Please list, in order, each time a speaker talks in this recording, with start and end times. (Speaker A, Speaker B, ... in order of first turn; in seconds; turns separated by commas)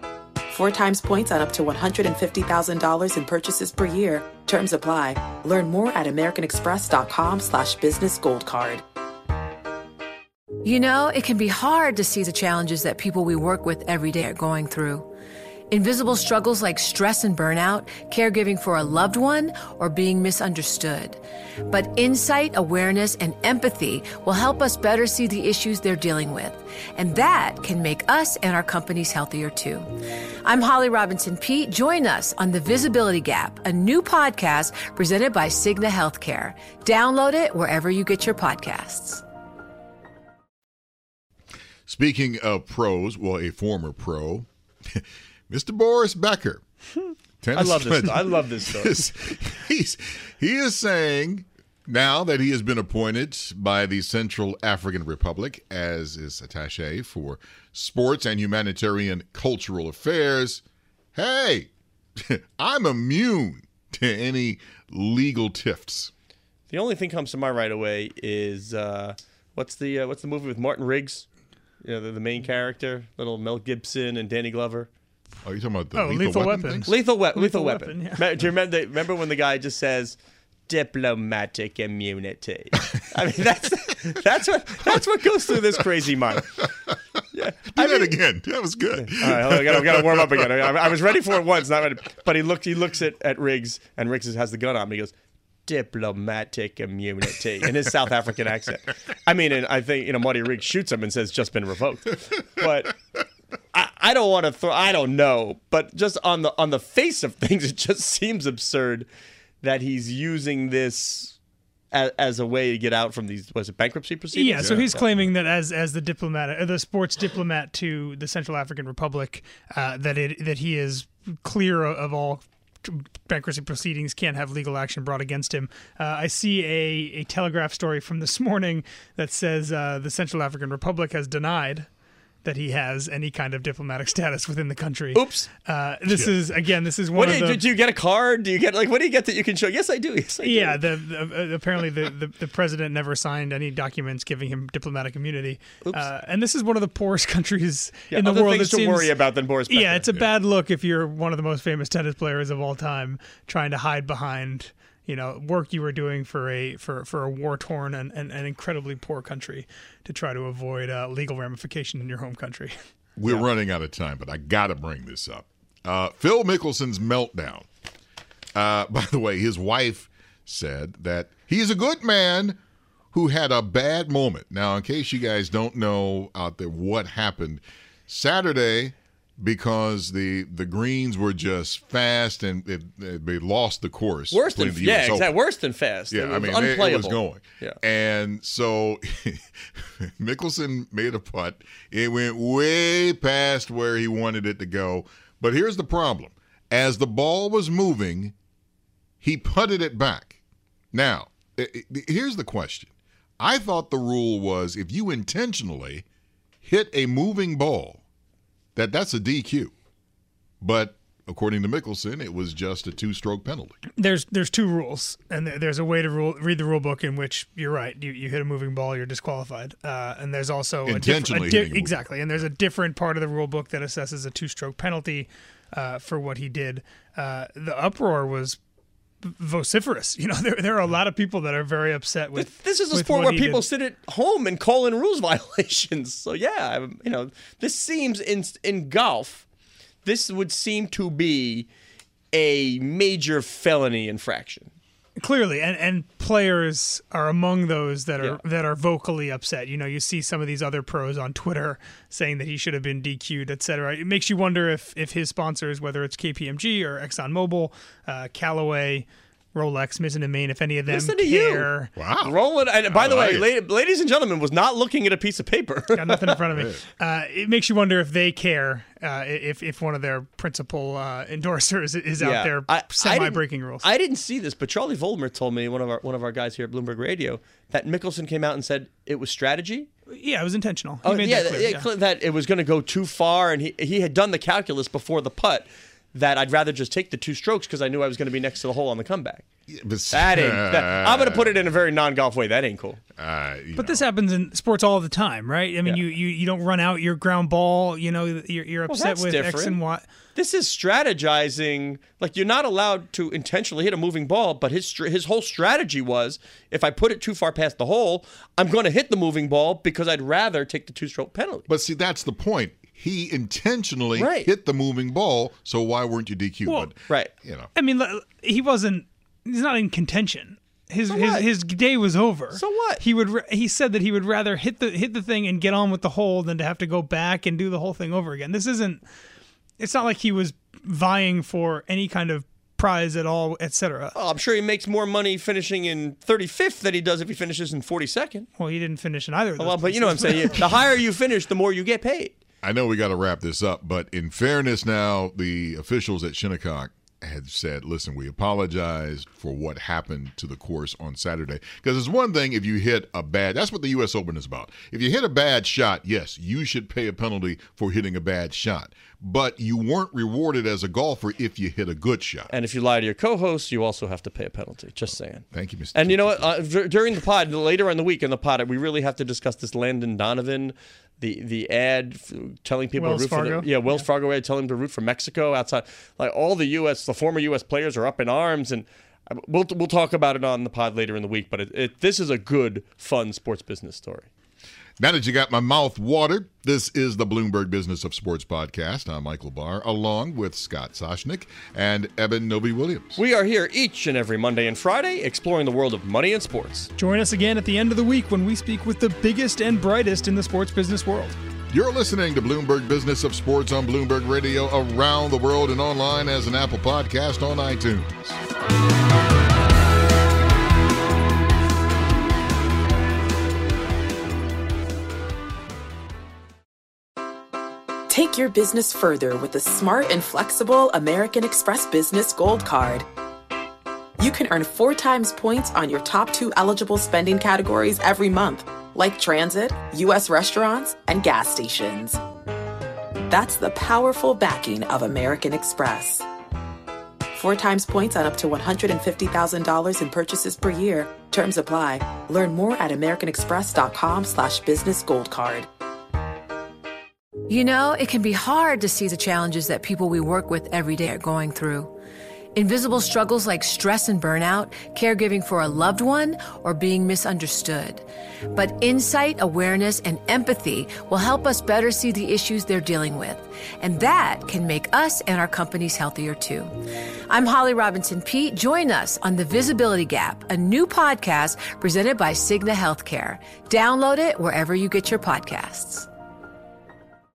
Speaker A: 0.5-8.8, Speaker B: 10.6-15.1, Speaker B: 15.7-29.9, Speaker B: 30.4-39.2, Speaker C: 41.9-46.6, Speaker C: 47.4-60.6, Speaker D: 47.5-49.1, Speaker C: 61.1-66.1, Speaker D: 66.7-71.3, Speaker D: 71.8-74.9, Speaker C: 75.4-76.9, Speaker E: 75.9-78.2, Speaker D: 76.9-80.2, Speaker D: 80.7-86.6, Speaker C: 86.6-86.9, Speaker D: 87.3-88.2, Speaker C: 87.7-90.5, Speaker D: 88.9-95.1, Speaker D: 95.7-103.0, Speaker D: 103.7-109.1, Speaker D: 109.6-111.4, Speaker D: 111.9-115.1, Speaker E: 114.3-131.9, Speaker C: 114.6-115.3, Speaker E: 132.4-137.6, Speaker D: 135.1-135.5, Speaker C: 136.1-136.4, Speaker D: 137.1-140.8, Speaker E: 140.4-149.1, Speaker D: 148.1-150.3, Speaker E: 149.7-163.5, Speaker C: 163.2-167.7, Speaker C: 168.5-172.6, Speaker C: 173.1-185.4, Speaker D: 184.3-187.8, Speaker C: 186.1-198.3, Speaker C: 199.2-200.4, Speaker C: 200.9-206.0, Speaker C: 206.6-208.0, Speaker C: 208.8-209.7, Speaker C: 210.6-213.8, Speaker E: 213.9-228.6, Speaker C: 220.8-222.4, Speaker E: 229.2-233.7, Speaker D: 232.3-239.4, Speaker D: 240.0-241.7, Speaker D: 242.3-244.7, Speaker E: 245.2-261.9, Speaker D: 260.9-261.7, Speaker C: 262.0-263.5, Speaker D: 262.2-266.4, Speaker E: 265.9-273.9, Speaker C: 266.6-266.8, Speaker D: 272.2-279.9, Speaker E: 280.1-281.9, Speaker D: 281.0-289.4, Speaker C: 289.7-291.8, Speaker D: 290.1-293.0, Speaker C: 293.2-294.1, Speaker E: 293.7-300.1, Speaker D: 298.9-299.8, Speaker D: 300.3-311.7, Speaker C: 311.7-317.7, Speaker D: 314.1-314.5, Speaker D: 317.1-317.3, Speaker E: 317.7-329.0, Speaker D: 321.1-321.5, Speaker D: 322.5-323.0, Speaker E: 329.8-334.1, Speaker D: 334.1-338.5, Speaker E: 338.6-340.7, Speaker D: 339.6-342.3, Speaker C: 342.6-362.5, Speaker D: 362.5-384.3, Speaker C: 365.5-366.5, Speaker E: 372.9-374.0, Speaker C: 385.0-393.2, Speaker D: 393.1-396.9, Speaker E: 396.9-401.4, Speaker C: 401.7-408.4, Speaker A: 418.1-423.1, Speaker A: 424.2-432.2, Speaker A: 433.3-436.2, Speaker A: 437.3-445.7, Speaker B: 447.5-451.9, Speaker B: 452.5-466.7, Speaker B: 467.3-476.1